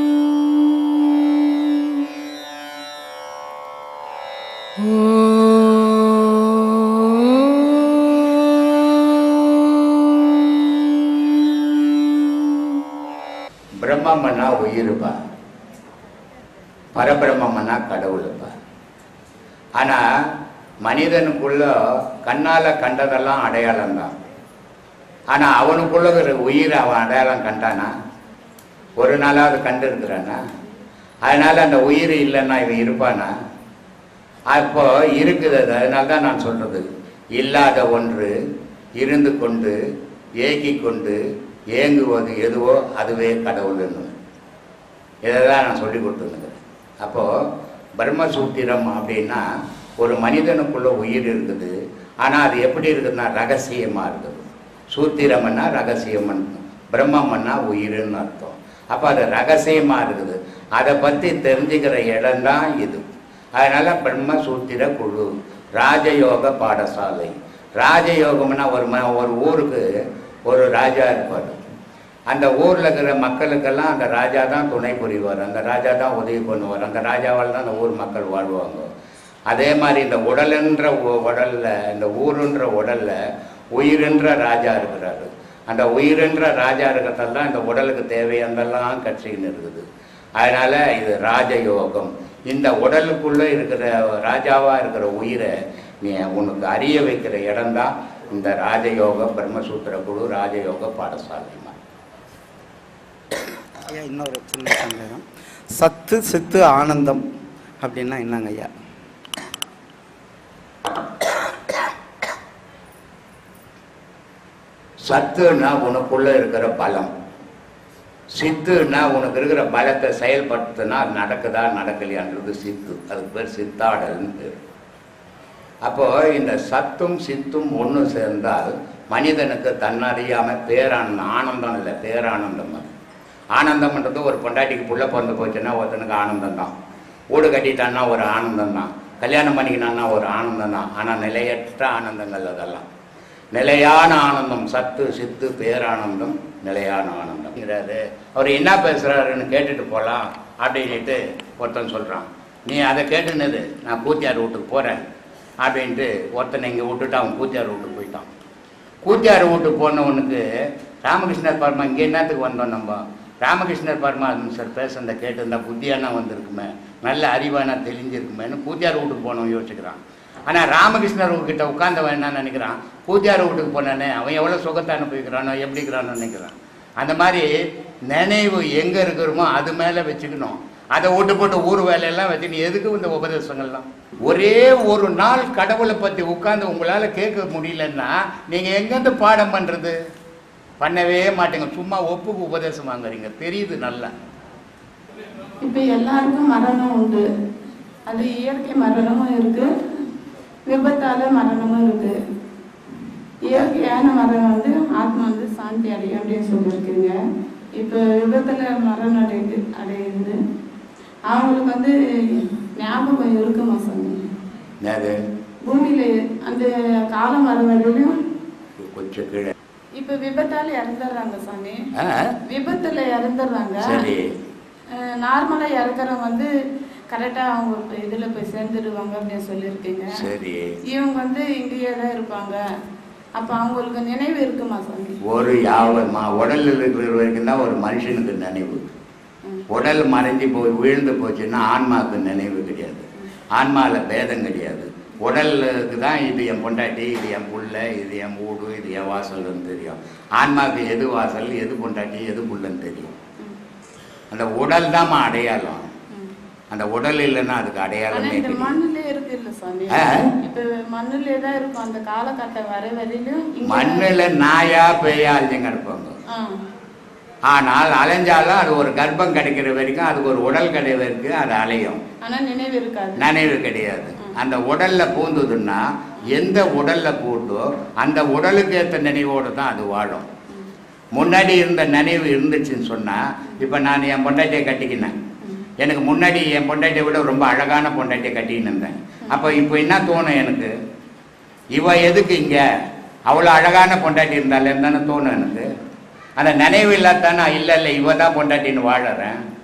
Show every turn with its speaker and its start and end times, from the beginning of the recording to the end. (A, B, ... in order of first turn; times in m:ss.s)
0:13.8-0:15.2 A
0:16.9-0:18.5 A
0:19.8-0:20.3 A
0:20.8-0:24.2 A
0:25.3-0:27.9 A
0:29.0-0:30.4 A
0:31.2-0:33.3 A
0:34.5-0:38.3 A
0:39.0-0:39.8 A
0:40.4-0:41.2 A
0:41.7-0:44.1 A
0:45.2-0:47.4 A
0:48.0-0:49.4 A
0:50.0-1:03.0 A
1:03.6-1:09.8 A
1:10.4-1:11.6 A
1:12.3-1:18.9 A
1:19.5-1:23.2 A
1:23.7-1:29.8 A
1:30.4-1:41.8 A
1:43.9-1:45.2 B
1:45.7-1:47.2 B
1:47.8-1:48.7 B
1:55.0-1:57.1 A
1:58.3-2:04.6 A
2:05.8-2:12.9 A
2:13.5-2:16.7 A
2:17.3-2:22.8 A
2:23.5-2:35.0 A
2:35.6-2:38.3 A
2:39.0-2:40.4 A
2:41.0-2:57.5 A
2:58.1-3:10.0 A
3:10.8-3:14.1 A
3:15.6-3:17.2 C
3:18.1-3:19.7 C
3:20.7-3:22.1 C
3:23.4-3:27.1 C
3:27.8-3:30.4 C
3:31.3-3:34.2 C
3:34.8-3:35.2 A
3:35.6-3:38.2 C
3:38.8-3:39.5 A
3:40.0-3:41.8 C
3:42.0-3:42.3 A
3:42.5-3:44.0 C
3:43.8-3:44.3 A
3:44.9-3:46.5 C
3:47.1-3:50.2 C
3:50.1-3:50.8 A
3:50.9-3:52.6 C
3:53.4-3:55.2 C
3:55.2-3:58.9 A
3:59.7-4:13.2 A
4:14.3-4:15.9 A
4:16.7-4:18.7 A
4:18.1-4:24.1 C
4:19.9-4:20.2 A
4:23.6-4:26.2 A
4:26.3-4:26.6 C
4:27.5-4:32.0 A
4:32.2-4:33.3 C
4:33.2-4:40.3 A
4:41.1-4:45.2 A
4:45.4-4:45.7 C
4:45.8-4:50.7 A
4:51.7-4:52.6 A
4:53.3-4:55.7 A
4:56.4-4:59.4 A